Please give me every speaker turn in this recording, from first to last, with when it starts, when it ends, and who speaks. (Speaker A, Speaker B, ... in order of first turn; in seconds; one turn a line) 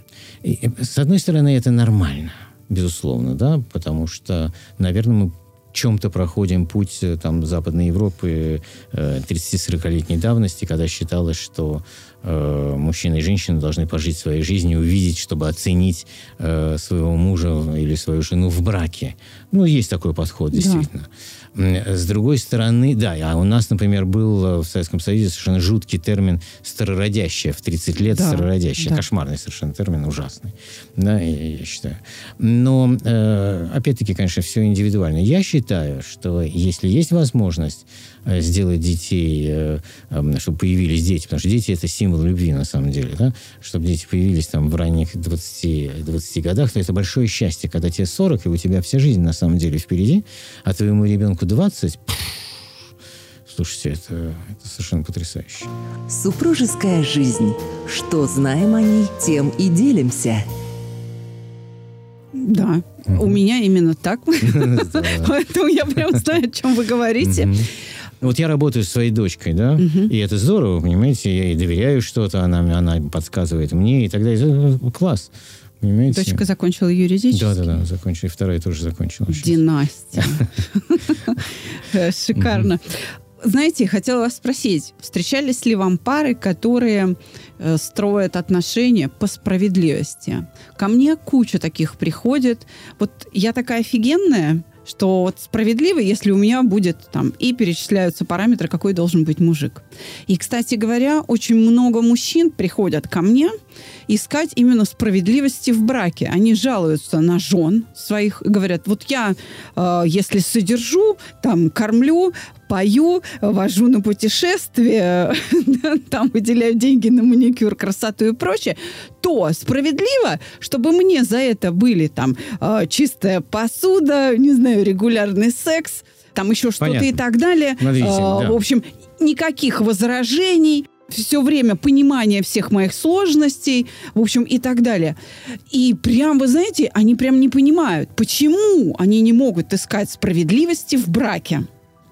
Speaker A: 0.4-52.5
Speaker B: 20.5-20.9
Speaker B: 28.1-29.0
Speaker A: 53.5-55.7
Speaker C: 56.1-60.5
Speaker B: 62.4-67.5
Speaker A: 63.1-63.4
Speaker A: 64.4-65.3
Speaker A: 67.2-67.7
Speaker A: 68.2-76.4
Speaker B: 69.8-70.1
Speaker B: 76.1-77.8
Speaker A: 77.3-79.6
Speaker B: 79.3-103.5
Speaker A: 82.4-82.7
Speaker B: 104.1-135.2
Speaker A: 126.8-127.2
Speaker A: 127.8-128.6
Speaker B: 135.7-141.7